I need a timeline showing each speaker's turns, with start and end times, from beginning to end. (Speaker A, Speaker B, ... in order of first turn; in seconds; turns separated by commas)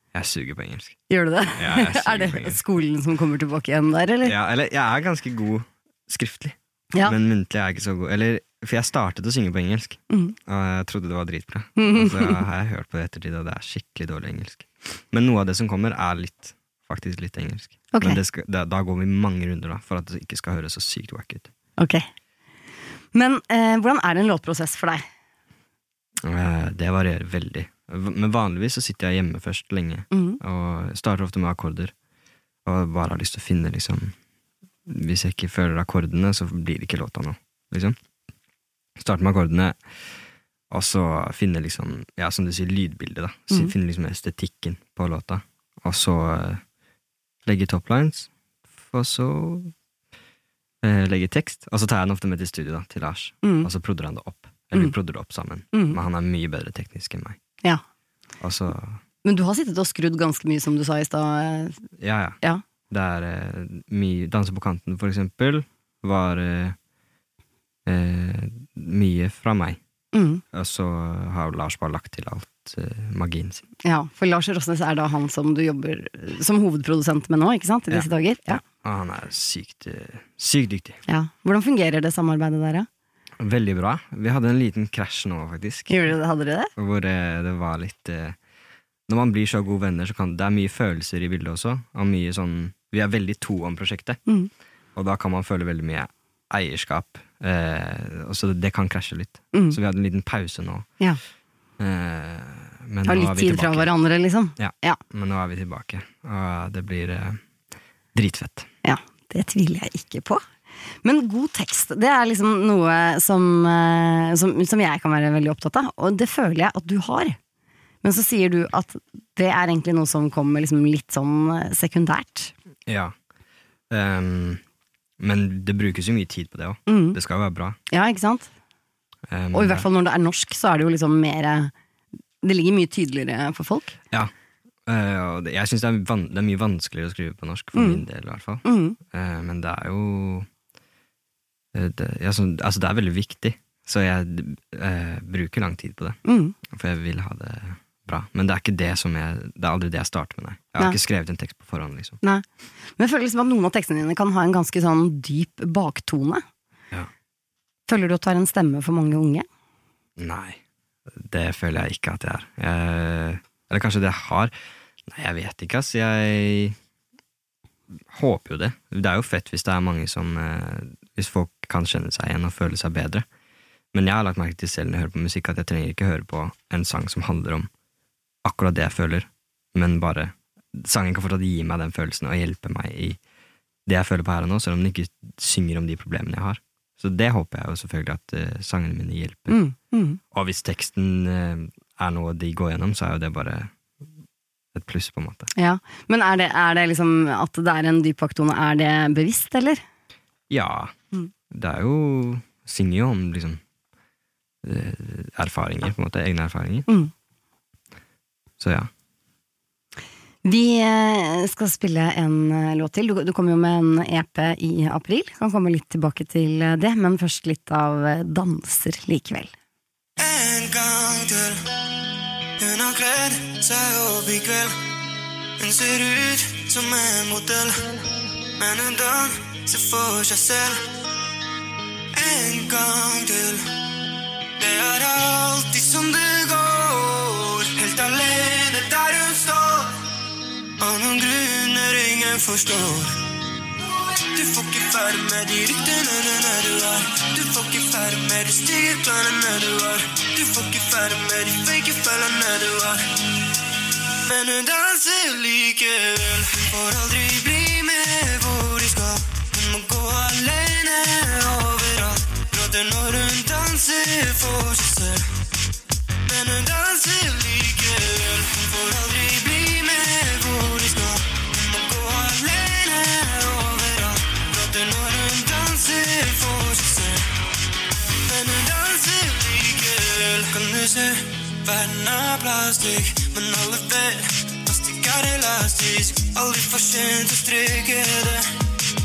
Speaker A: 0.1-1.0, Speaker B: 1.1-4.3, Speaker A: 1.6-2.6, Speaker A: 4.2-21.5, Speaker B: 10.1-10.3, Speaker B: 11.8-12.4, Speaker B: 17.9-18.2, Speaker B: 21.8-22.1, Speaker B: 23.1-25.0, Speaker A: 26.2-31.9, Speaker B: 30.1-30.4, Speaker A: 32.6-34.1, Speaker A: 34.9-38.0, Speaker A: 39.0-39.8, Speaker A: 40.7-46.6, Speaker A: 47.4-48.3, Speaker A: 48.8-49.7, Speaker A: 50.8-57.4, Speaker B: 53.4-53.7, Speaker B: 55.7-56.0, Speaker A: 58.4-59.0, Speaker B: 59.2-61.8, Speaker A: 62.0-66.8, Speaker A: 67.8-69.8, Speaker B: 70.1-70.4, Speaker A: 70.5-73.6, Speaker B: 73.8-78.6, Speaker A: 77.9-81.0, Speaker B: 81.1-82.9, Speaker A: 83.4-86.0, Speaker B: 85.9-86.7, Speaker A: 86.8-88.4, Speaker A: 89.1-94.2, Speaker A: 94.9-100.9, Speaker A: 101.8-103.9, Speaker B: 103.0-105.0, Speaker A: 104.6-107.4, Speaker A: 108.1-108.7, Speaker B: 108.8-110.4, Speaker B: 111.0-117.4, Speaker B: 118.0-122.5, Speaker A: 122.9-123.1, Speaker A: 123.9-124.6, Speaker A: 125.2-127.8, Speaker B: 126.9-127.2, Speaker B: 127.9-128.5, Speaker A: 129.3-129.9, Speaker B: 129.5-131.7, Speaker B: 132.4-134.0, Speaker A: 134.9-140.5, Speaker B: 137.7-138.0, Speaker B: 138.6-139.0, Speaker A: 141.7-152.2, Speaker B: 146.2-146.6, Speaker B: 153.0-156.4, Speaker B: 157.9-159.4, Speaker A: 160.2-160.6, Speaker A: 161.1-164.5, Speaker A: 165.1-166.8, Speaker A: 168.1-173.2, Speaker A: 173.9-177.7, Speaker A: 178.4-183.2, Speaker A: 183.8-189.6, Speaker B: 189.5-190.2, Speaker A: 190.3-193.7, Speaker A: 194.7-195.5, Speaker B: 195.6-199.8, Speaker A: 200.5-200.9, Speaker A: 201.5-203.6, Speaker A: 204.6-206.9, Speaker A: 208.6-208.9, Speaker B: 210.4-219.5, Speaker C: 220.2-221.6, Speaker C: 222.6-224.9, Speaker C: 225.6-230.8, Speaker C: 232.1-233.7, Speaker C: 234.6-240.0, Speaker C: 240.8-243.2, Speaker C: 244.2-253.2, Speaker C: 254.1-265.3, Speaker C: 266.2-277.3, Speaker C: 278.1-288.5